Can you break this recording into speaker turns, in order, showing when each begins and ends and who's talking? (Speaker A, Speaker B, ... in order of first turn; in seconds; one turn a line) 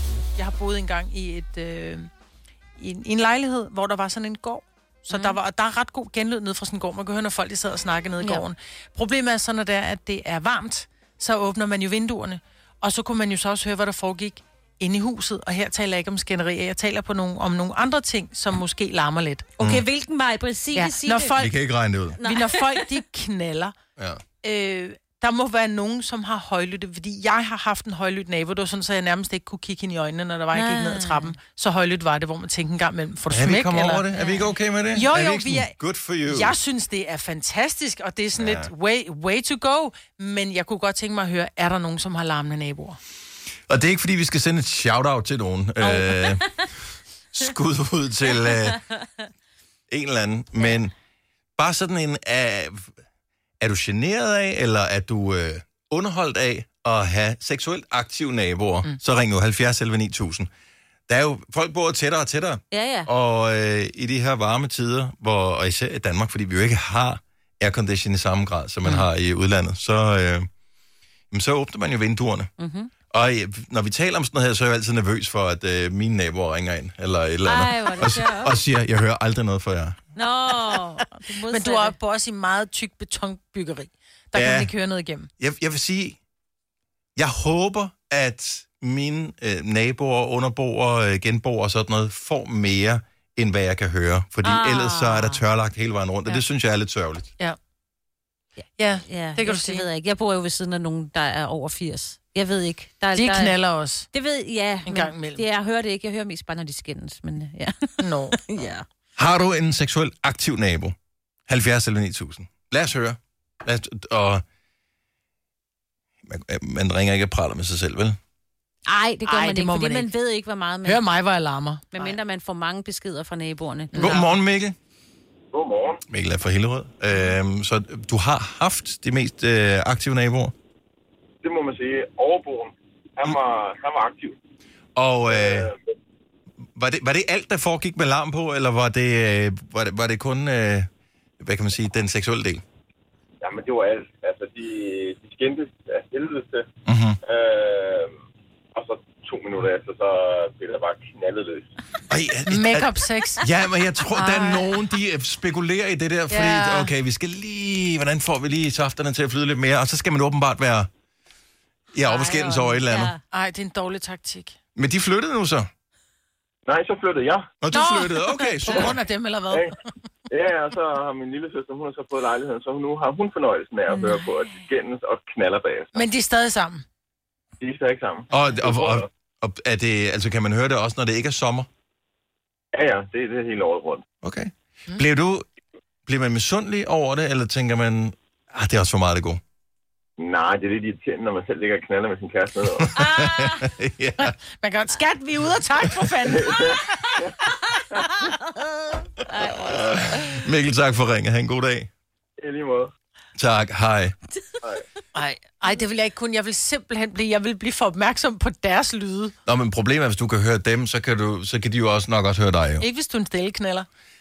Speaker A: 0.4-2.1
Speaker A: 2.8-19.5
Speaker B: 5.1-5.4
Speaker B: 19.6-21.4
Speaker C: 19.6-19.9
Speaker A: 20.8-21.6
Speaker C: 21.4-22.2
Speaker B: 22.2-22.9
Speaker A: 22.2-23.7
Speaker C: 24.0-24.2
Speaker A: 24.4-34.1
Speaker B: 30.5-31.4
Speaker C: 33.3-36.6
Speaker B: 34.2-34.5
Speaker A: 34.9-43.0
Speaker C: 38.4-38.7
Speaker C: 43.7-46.5
Speaker B: 45.8-46.7
Speaker C: 47.3-48.8
Speaker C: 49.9-50.9
Speaker C: 51.6-52.9
Speaker C: 53.6-60.5
Speaker C: 61.1-70.5
Speaker B: 62.7-63.1
Speaker C: 71.3-72.5
Speaker B: 72.6-72.9
Speaker C: 73.1-80.0
Speaker B: 77.5-78.6
Speaker B: 80.2-82.0
Speaker A: 81.5-85.3
Speaker C: 84.3-84.7
Speaker C: 85.4-86.2
Speaker C: 87.2-97.3
Speaker B: 94.4-95.4
Speaker A: 98.8-99.9
Speaker B: 99.1-103.6
Speaker A: 103.1-104.1
Speaker B: 104.1-108.8
Speaker A: 104.8-105.4
Speaker A: 108.0-108.4
Speaker C: 109.2-110.9
Speaker C: 111.5-114.4
Speaker C: 116.3-118.2
Speaker B: 118.9-121.0
Speaker A: 119.2-120.1
Speaker A: 120.8-122.2
Speaker B: 121.9-124.4
Speaker A: 123.9-124.2
Speaker C: 124.0-124.8
Speaker D: 125.5-126.0
Speaker C: 126.1-130.5
Speaker D: 131.4-134.4
Speaker C: 135.0-135.7
Speaker D: 135.3-135.8
Speaker C: 136.8-140.9
Speaker C: 141.4-142.6
Speaker D: 143.4-146.7
Speaker C: 146.9-147.2
Speaker D: 147.2-148.2
Speaker D: 148.8-151.7
Speaker C: 152.1-160.9
Speaker A: 152.5-153.5
Speaker A: 154.1-154.8
Speaker A: 156.3-156.9
Speaker C: 161.9-163.1
Speaker B: 162.0-163.2
Speaker A: 163.3-164.6
Speaker C: 164.8-165.7
Speaker D: 166.7-167.5
Speaker C: 167.6-169.0
Speaker A: 167.7-169.8
Speaker D: 170.3-176.1
Speaker B: 173.9-174.3
Speaker A: 175.9-176.8
Speaker D: 177.6-179.1
Speaker C: 178.3-181.7
Speaker D: 182.7-184.0
Speaker C: 184.2-185.5
Speaker C: 186.1-189.4
Speaker D: 190.2-192.9
Speaker C: 192.8-194.4
Speaker A: 194.2-197.1
Speaker D: 196.3-197.3
Speaker B: 199.3-200.5
Speaker C: 199.6-201.9
Speaker D: 202.4-202.9
Speaker C: 203.4-204.2
Speaker A: 205.1-209.3
Speaker C: 209.5-212.8
Speaker A: 212.8-213.9